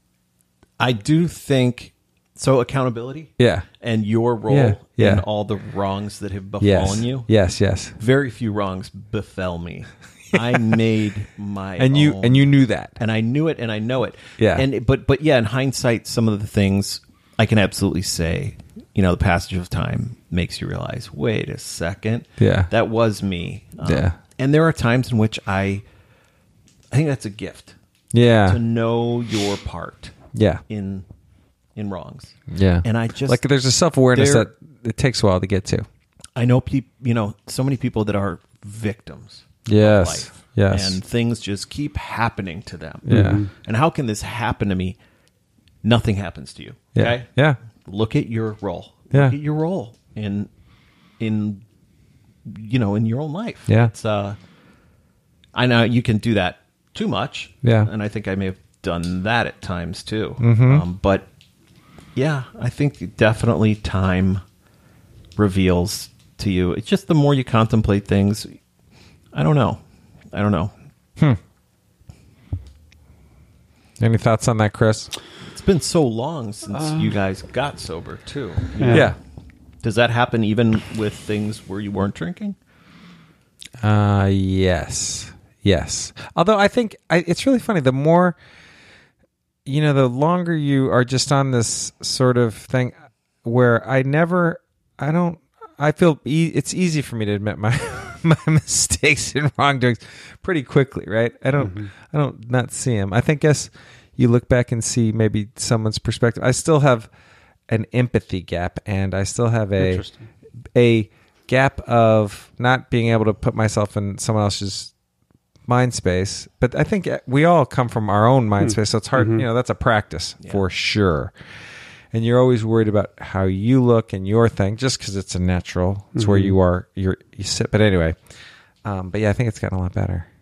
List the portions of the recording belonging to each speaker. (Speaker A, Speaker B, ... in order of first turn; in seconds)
Speaker A: 0.8-7.3, 8.0-25.8, 26.9-27.8, 28.4-30.1, 30.7-31.1, 31.7-33.4, 34.1-34.5, 36.4-45.0, 45.8-47.3, 47.8-50.5, 51.2-51.6, 52.4-54.4, 55.5-61.3, 62.1-64.4, 65.4-68.6, 69.3-69.8, 70.3-70.7, 75.5-79.1, 79.8-82.6
Speaker B: 3.4-3.6, 4.5-5.2, 6.6-8.0, 11.8-13.0, 14.4-14.7, 22.4-22.7, 23.8-24.2, 28.1-28.6, 30.3-30.6, 32.5-35.9, 39.6-41.0, 43.1-43.4, 46.9-47.6, 57.6-57.9, 60.4-60.8, 74.0-75.1, 78.9-79.2, 83.8-88.3, 89.7-107.1, 107.7-110.0, 110.7-114.9, 115.7-121.3, 122.1-128.2, 128.8-130.3
Speaker C: 43.1-43.5, 76.7-77.1, 78.8-79.1, 101.5-101.9, 109.8-110.3, 118.6-119.4, 126.1-126.5